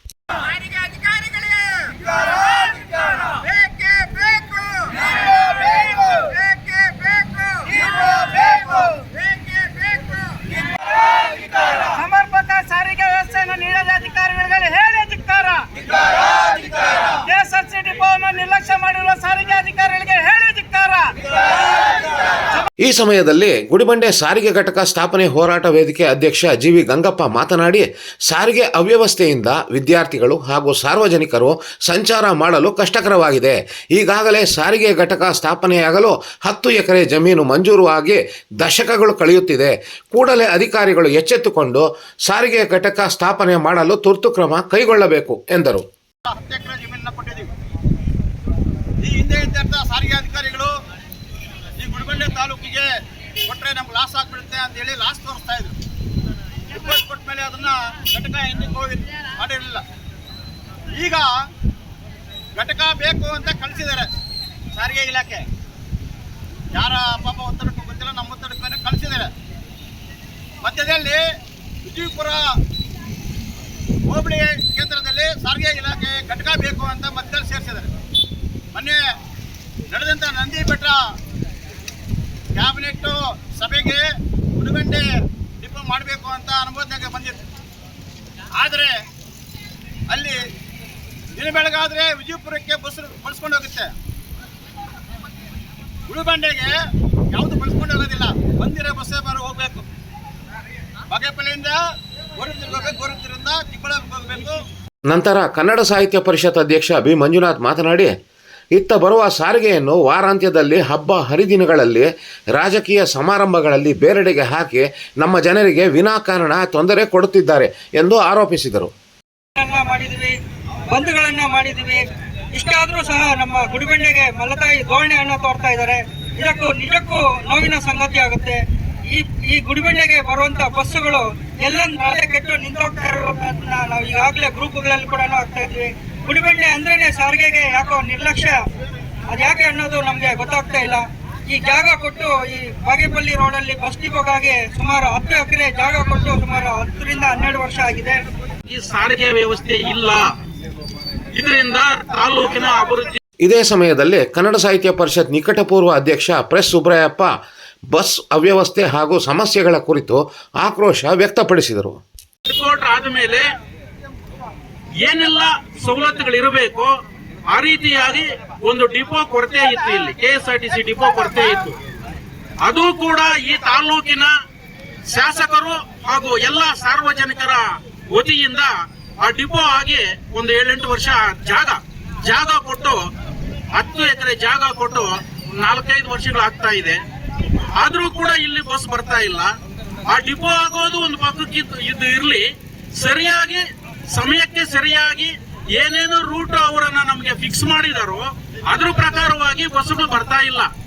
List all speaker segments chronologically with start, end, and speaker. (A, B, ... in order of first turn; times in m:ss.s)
0:00.6-0:21.3 A
0:22.8-0:45.8 B
0:46.2-0:47.5 C
0:49.0-0:50.7 C
0:51.8-0:52.9 C
0:53.4-0:55.8 C
0:56.7-0:59.8 C
1:00.9-1:01.3 C
1:02.5-1:04.1 C
1:04.7-1:05.4 C
1:06.7-1:09.3 C
1:10.6-1:11.2 C
1:11.8-1:12.5 C
1:14.0-1:17.9 C
1:18.7-1:19.0 C
1:19.9-1:21.0 C
1:22.5-1:25.0 C
1:25.6-1:27.4 C
1:28.5-1:28.9 C
1:30.1-1:30.4 C
1:31.3-1:33.9 C
1:36.1-1:36.7 C
1:37.3-1:39.8 C
1:41.1-1:41.8 C
1:42.4-1:44.6 C
1:45.1-1:48.1 B
1:48.7-1:58.9 B
1:59.6-2:00.4 D
2:00.9-2:18.6 D
2:19.3-2:28.2 D
2:28.7-2:30.3 E
2:31.3-2:33.2 E
2:33.4-2:37.3 B
2:37.9-2:42.0 B
2:42.4-2:43.5 E
2:45.0-2:46.9 E
2:47.5-2:51.8 E
2:52.6-2:54.3 E
2:55.0-3:03.1 E
3:03.7-3:07.0 E
3:07.8-3:09.5 E
3:10.0-3:20.7 E